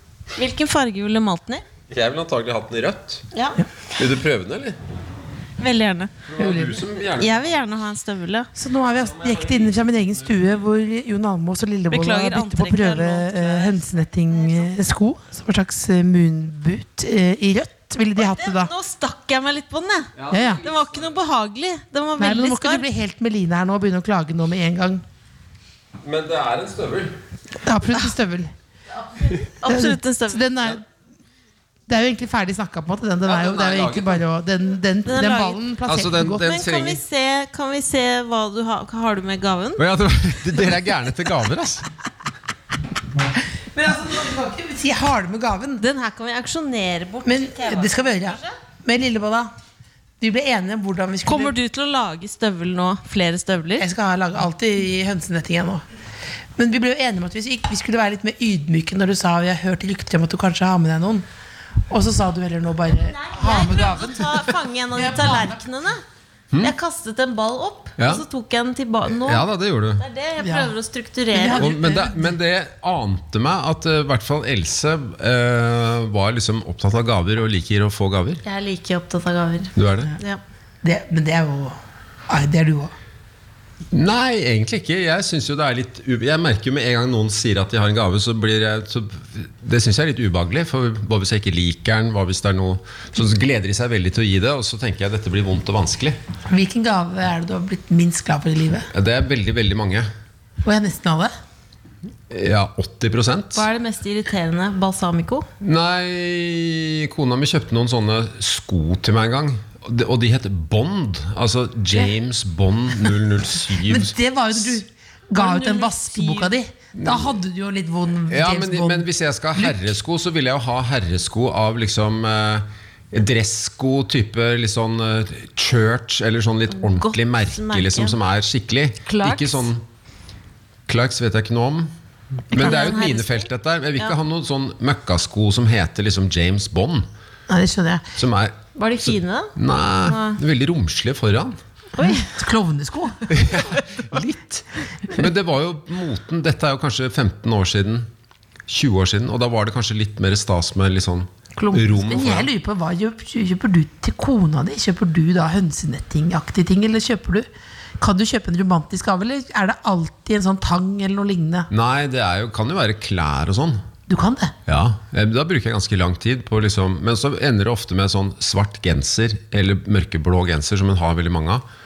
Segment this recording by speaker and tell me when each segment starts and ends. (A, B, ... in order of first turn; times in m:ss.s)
0:00.4-0:01.6 A
0:01.9-0:03.2 B
0:03.3-0:03.6 A
0:04.0-0:04.8 B
0:05.6-0:06.1 A
0:06.3-0:07.5 B
0:06.4-0:06.8 C
0:07.2-0:08.5 A
0:08.5-0:18.7 C
0:11.9-0:14.7 A
0:18.2-0:22.8 A
0:20.2-0:21.1 B
0:20.3-0:20.6 C
0:22.2-0:25.0 C
0:26.0-0:27.1 B
0:27.6-0:28.5 C
0:29.2-0:30.5 A
0:29.6-0:30.8 C
0:31.9-0:36.5 C
0:33.2-0:34.2 B
0:35.0-0:35.6 A
0:35.8-0:37.0 B
0:36.3-0:39.8 A
0:39.8-0:41.9 B
0:43.6-0:45.8 C
0:45.8-0:48.6 A
0:47.2-0:49.5 C
0:50.2-0:51.5 C
0:51.2-0:53.9 A
0:53.8-0:55.8 C
0:56.6-1:01.2 C
1:01.9-1:05.6 C
1:02.9-1:06.0 A
1:06.6-1:11.7 A
1:08.0-1:08.2 B
1:09.1-1:10.0 B
1:10.4-1:10.7 C
1:11.3-1:12.4 C
1:11.6-1:18.4 B
1:18.4-1:20.4 A
1:19.8-1:20.1 B
1:20.8-1:21.8 C
1:22.3-1:22.9 C
1:23.9-1:36.2 B
1:36.5-1:38.9 C
1:38.9-1:40.0 B
1:40.6-1:41.3 C
1:42.3-1:43.6 B
1:43.5-1:45.5 A
1:45.6-1:54.8 B
1:53.8-2:00.0 C
1:55.3-1:56.6 A
1:57.0-1:57.4 B
1:58.3-2:09.8 B
2:06.7-2:08.2 A
2:09.0-2:09.7 A
2:10.9-2:11.9 B
2:12.5-2:17.1 B
2:12.5-2:14.2 A
2:17.5-2:18.0 C
2:18.2-2:21.6 B
2:18.8-2:19.5 A
2:20.0-2:20.4 A
2:22.0-2:22.3 A
2:22.0-2:23.2 C
2:23.3-2:28.1 B
2:28.7-2:32.5 B
2:31.6-2:37.4 C
2:38.0-2:41.7 C
2:41.7-2:43.8 B
2:44.1-2:44.5 C
2:44.7-2:51.6 B